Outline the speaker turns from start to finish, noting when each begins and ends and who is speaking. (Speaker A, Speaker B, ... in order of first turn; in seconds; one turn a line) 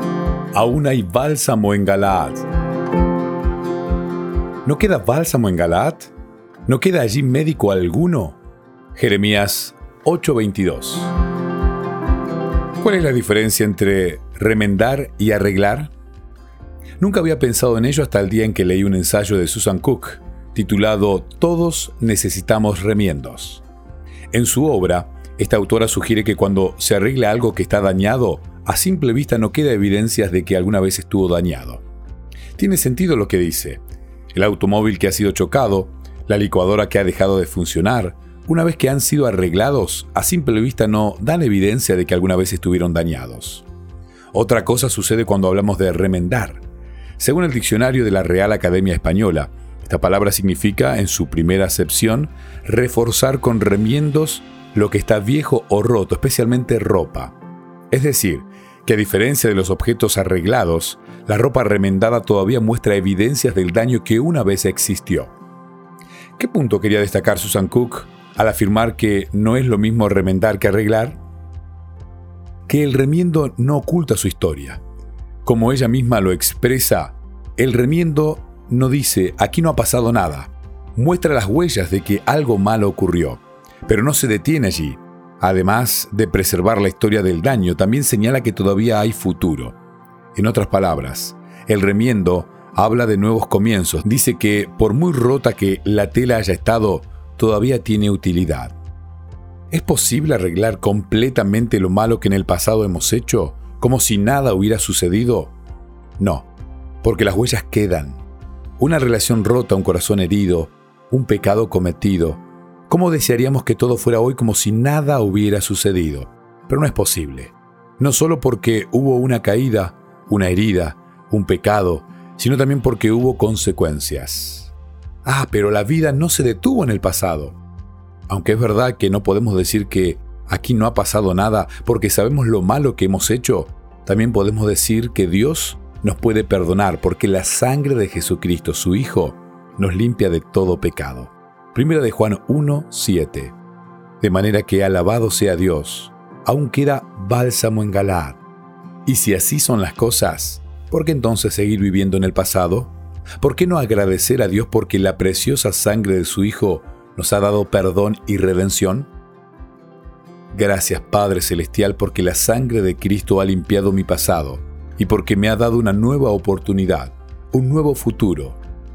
Speaker A: 0.5-2.4
Speaker A: 4.6-6.1
Speaker A: 6.7-8.4
Speaker A: 8.9-11.1
Speaker A: 12.8-15.9
Speaker A: 17.0-23.6
Speaker A: 24.3-31.8
Speaker A: 32.5-33.8
Speaker A: 34.3-43.6
Speaker A: 44.3-46.6
Speaker A: 47.2-57.3
Speaker A: 57.9-65.3
Speaker A: 66.4-71.2
Speaker A: 72.7-74.8
Speaker A: 75.4-89.8
Speaker A: 90.3-98.7
Speaker A: 99.7-105.5
Speaker A: 106.2-106.5
Speaker A: 107.0-108.2
Speaker A: 108.8-124.7
Speaker A: 125.2-127.6
Speaker A: 128.3-143.6
Speaker A: 144.2-148.4
Speaker A: 149.1-159.1
Speaker A: 160.5-168.6